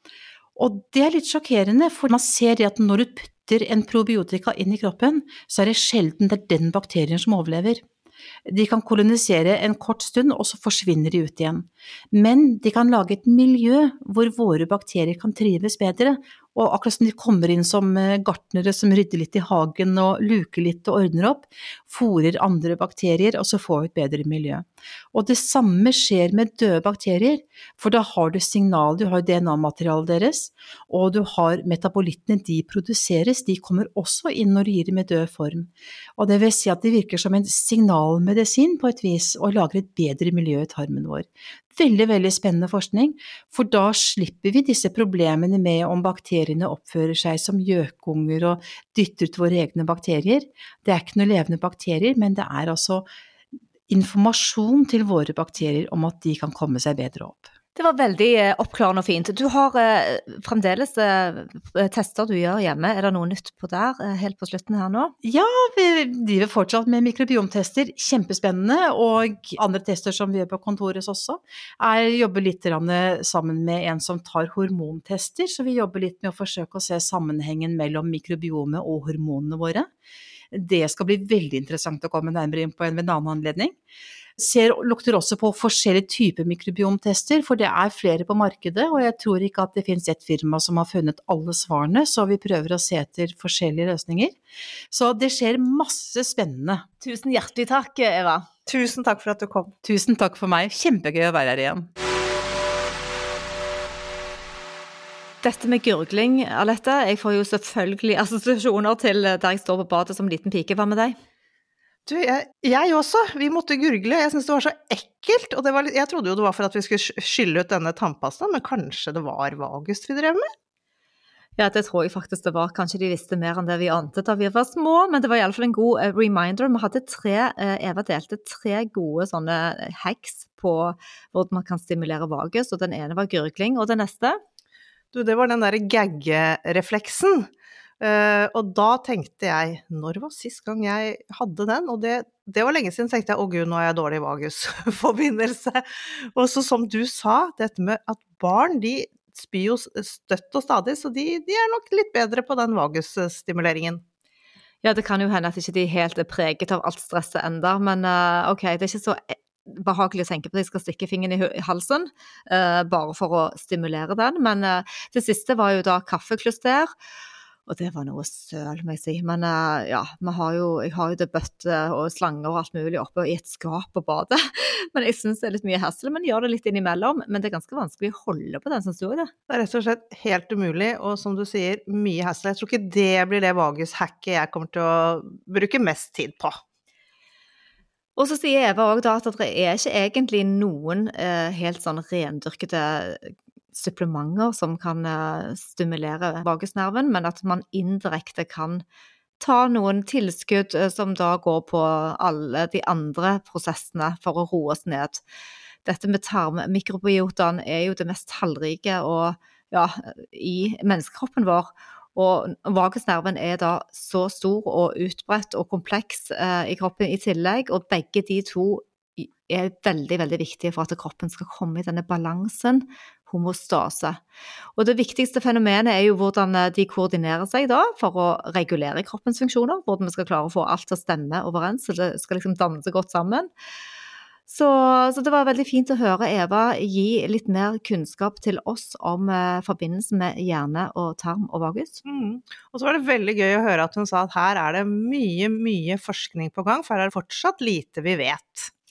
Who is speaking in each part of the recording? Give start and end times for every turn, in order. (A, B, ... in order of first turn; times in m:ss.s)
0:00.6-0:07.8 A
0:08.4-0:53.0 A
0:53.9-0:57.5 A
0:57.8-1:05.1 B
1:05.2-1:19.9 A
1:20.5-1:23.7 A
1:24.4-1:34.4 A
1:34.9-1:36.8 A
1:37.0-1:38.5 B
1:38.7-1:39.7 C
1:39.8-1:41.9 A
1:45.4-1:51.2 B
1:52.0-2:00.4 C
2:01.6-2:14.4 B
2:15.1-2:17.5 C
2:18.0-2:34.0 C
2:34.8-2:46.9 B
2:47.7-2:59.3 B
2:59.5-3:06.6 C
3:08.2-3:18.8 B
3:19.4-3:25.2 B
3:25.8-3:44.2 B
3:44.8-3:53.5 B
3:54.5-4:02.0 B
4:02.0-4:08.7 C